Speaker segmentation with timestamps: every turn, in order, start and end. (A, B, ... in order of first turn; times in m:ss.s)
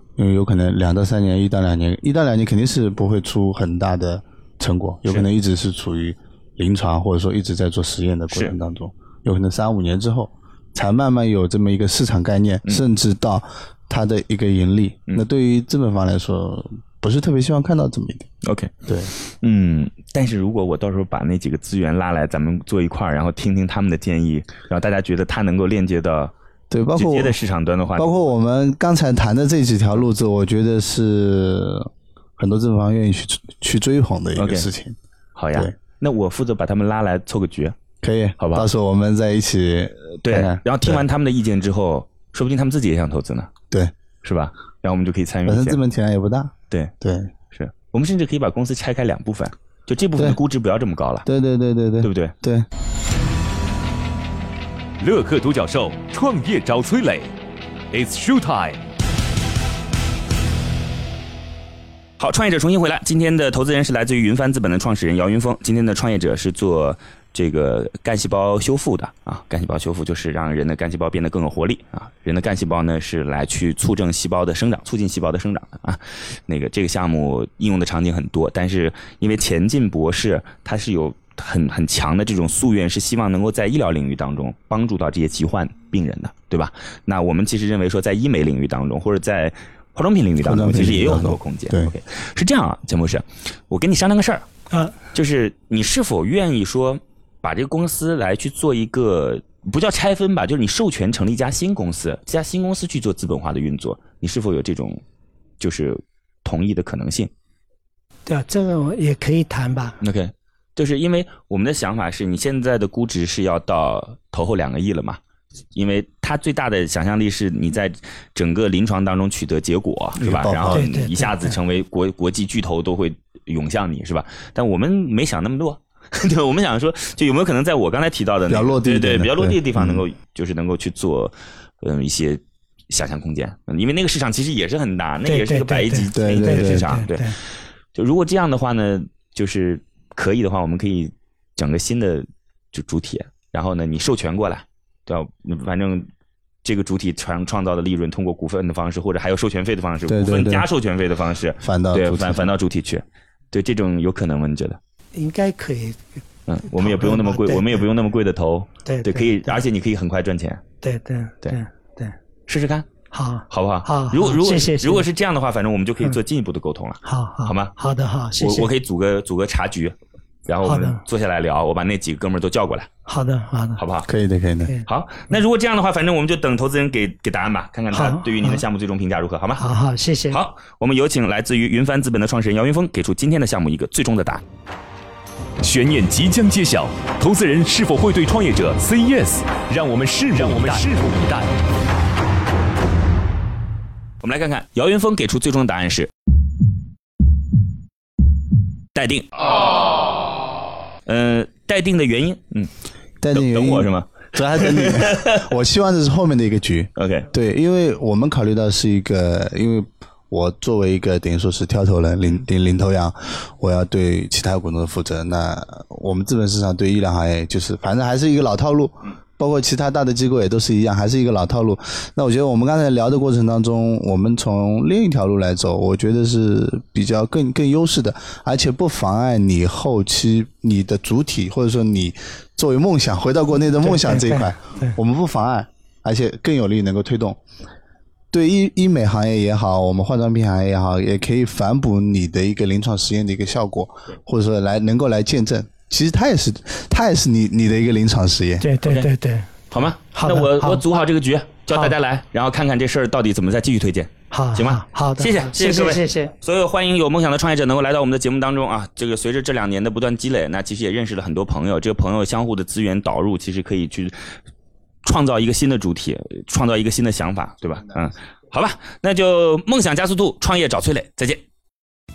0:00.2-0:18.3 A
0:18.4-0:26.3 B
0:18.9-0:19.1 A
0:26.7-0:27.4 A
0:26.9-0:28.2 B
0:28.0-0:35.0 A
0:34.4-0:34.7 B
0:35.4-0:37.8 B
0:38.0-0:41.0 A
0:38.4-0:38.7 B
0:40.2-0:43.5 B
0:44.2-0:45.8 B
0:45.4-0:47.3 A
0:47.5-0:51.3 B
0:51.2-0:52.7 A
0:52.0-0:52.3 B
0:55.0-0:57.3 C
0:57.9-0:58.8 C
1:02.2-1:34.5 B
1:30.4-1:31.9 A
1:35.1-1:45.0 B
1:45.6-1:47.3 B
1:48.2-1:50.0 D
1:50.0-1:55.2 B
1:55.7-2:26.1 B
2:00.2-2:00.8 A
2:00.7-2:01.5 D
2:08.5-2:10.0 A
2:15.2-2:17.4 D
2:16.1-2:16.9 A
2:26.6-2:34.8 B
2:30.1-2:30.7 A
2:31.6-2:32.5 A
2:35.1-2:36.0 D
2:36.5-2:40.6 B
2:36.8-2:37.8 D
2:38.8-2:39.6 D
2:40.8-2:42.1 D
2:42.5-2:42.9 B
2:43.1-2:45.0 D
2:43.5-2:47.7 B
2:47.0-2:48.7 D
2:48.4-2:50.0 B
2:50.5-2:52.9 B
2:50.6-2:51.0 D
2:53.1-2:53.8 D
2:53.8-2:54.1 B
2:54.1-2:54.7 A
2:54.9-2:59.6 B
2:57.9-2:58.6 D
2:59.6-3:00.4 D
3:00.3-3:04.4 B
3:05.6-3:11.5 C
3:14.2-3:16.1 B
3:18.9-3:19.3 B
3:21.0-3:22.7 B
3:23.2-3:57.4 A
3:23.3-3:25.4 B
3:27.0-3:27.3 B
3:53.8-3:54.9 D
3:58.3-4:08.6 A
4:08.6-4:09.5 D
4:09.7-4:24.2 B
4:10.1-4:10.8 D
4:14.3-4:16.3 D
4:25.0-4:31.4 B